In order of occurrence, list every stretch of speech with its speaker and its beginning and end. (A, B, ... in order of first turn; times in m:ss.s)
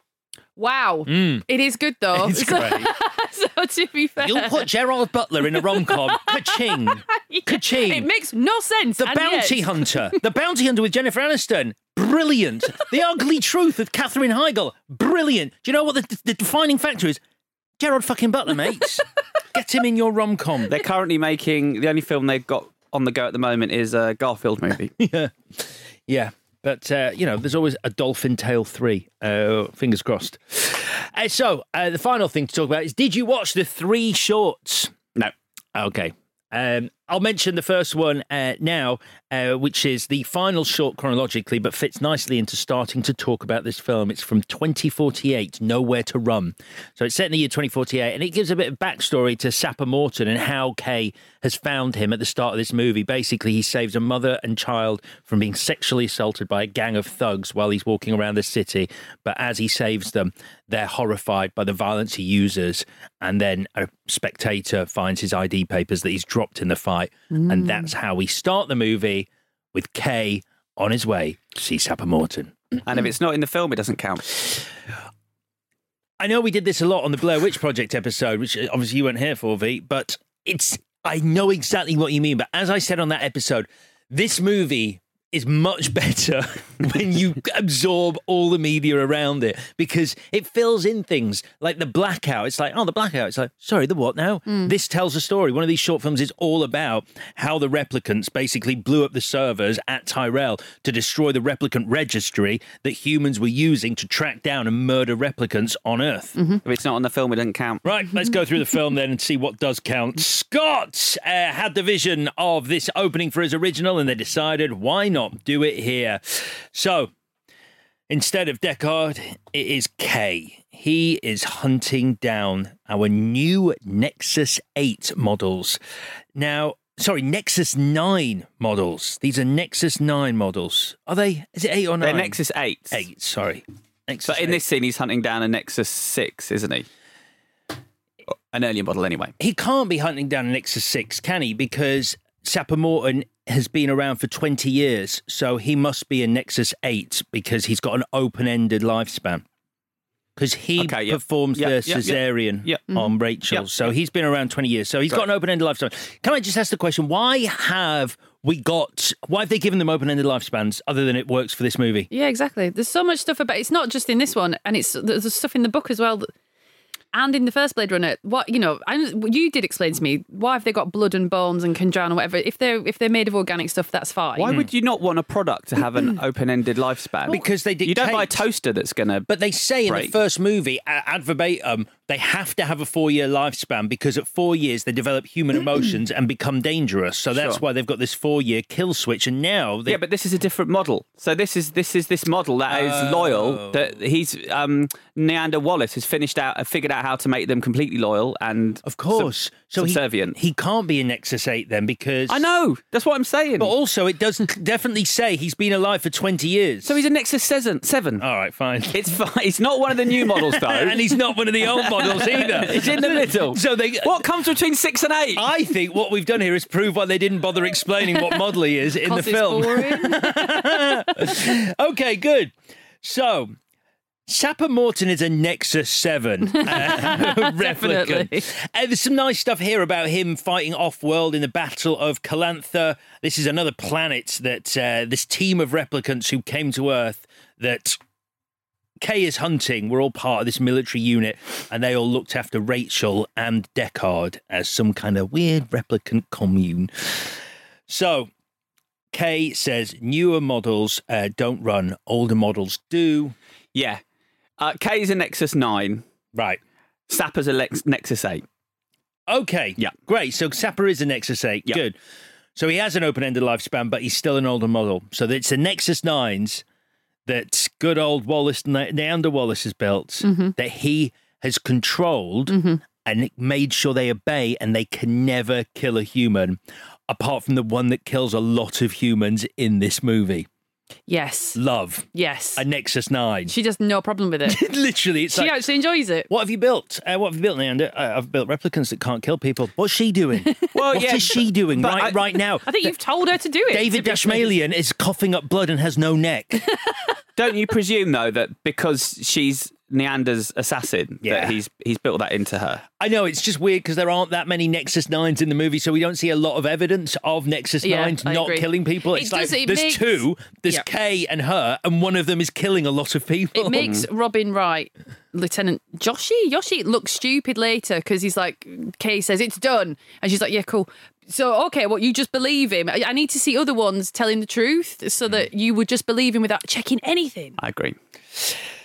0:00.6-0:04.7 A
0:01.1-0:01.4 B
0:02.1-0:02.9 B
0:04.2-0:08.1 B
0:05.5-0:10.1 A
0:09.0-0:17.2 B
0:17.8-0:20.8 B
0:20.7-0:24.9 C
0:25.0-0:34.9 B
0:35.8-1:12.6 B
1:07.3-1:07.9 A
1:12.8-1:14.4 C
1:16.2-1:46.4 B
1:46.6-1:47.8 C
1:47.8-1:57.1 B
1:58.1-2:05.8 B
2:06.4-2:12.4 B
2:12.0-2:13.0 C
2:12.9-2:14.6 B
2:14.3-2:16.9 C
2:18.5-2:19.3 C
2:19.4-2:29.4 B
2:30.4-2:42.1 B
2:30.8-2:32.8 C
2:33.5-2:33.8 C
2:42.1-2:46.3 A
2:47.1-2:54.6 A
2:54.4-2:59.3 C
2:57.3-2:58.4 B
2:59.3-3:10.0 B
2:59.9-3:00.1 C
3:07.3-3:07.6 C
3:09.9-3:20.4 C
3:12.7-3:13.9 B
3:18.8-3:22.4 B
3:22.3-3:23.7 C
3:23.6-3:27.0 B
3:26.8-3:28.2 C
3:28.2-3:29.0 B
3:28.9-3:35.5 C
3:30.2-3:34.2 B
3:35.4-3:43.6 B
3:39.0-3:40.5 A
3:44.3-3:58.0 B
3:46.6-3:48.4 A
3:59.0-4:08.3 B
4:09.1-4:13.4 B
4:13.8-4:14.0 C
4:14.6-4:16.0 C
4:16.3-4:16.6 B
4:17.1-4:18.4 C
4:19.3-4:22.0 B
4:22.6-4:26.6 B
4:27.3-4:40.5 B
4:30.2-4:30.6 A
4:32.5-4:32.8 A
4:41.1-4:41.6 A
4:41.6-4:43.5 B
4:42.1-4:42.6 A
4:43.5-4:44.6 A
4:44.4-4:45.6 B
4:45.3-4:46.3 A
4:46.3-4:52.9 B
4:50.7-4:52.2 C
4:52.7-4:54.5 A
4:53.7-4:56.6 B
4:57.4-5:02.8 C
5:01.2-5:01.6 B
5:03.0-5:14.0 B
5:07.8-5:10.8 A
5:13.5-5:27.6 A
5:27.6-5:28.0 C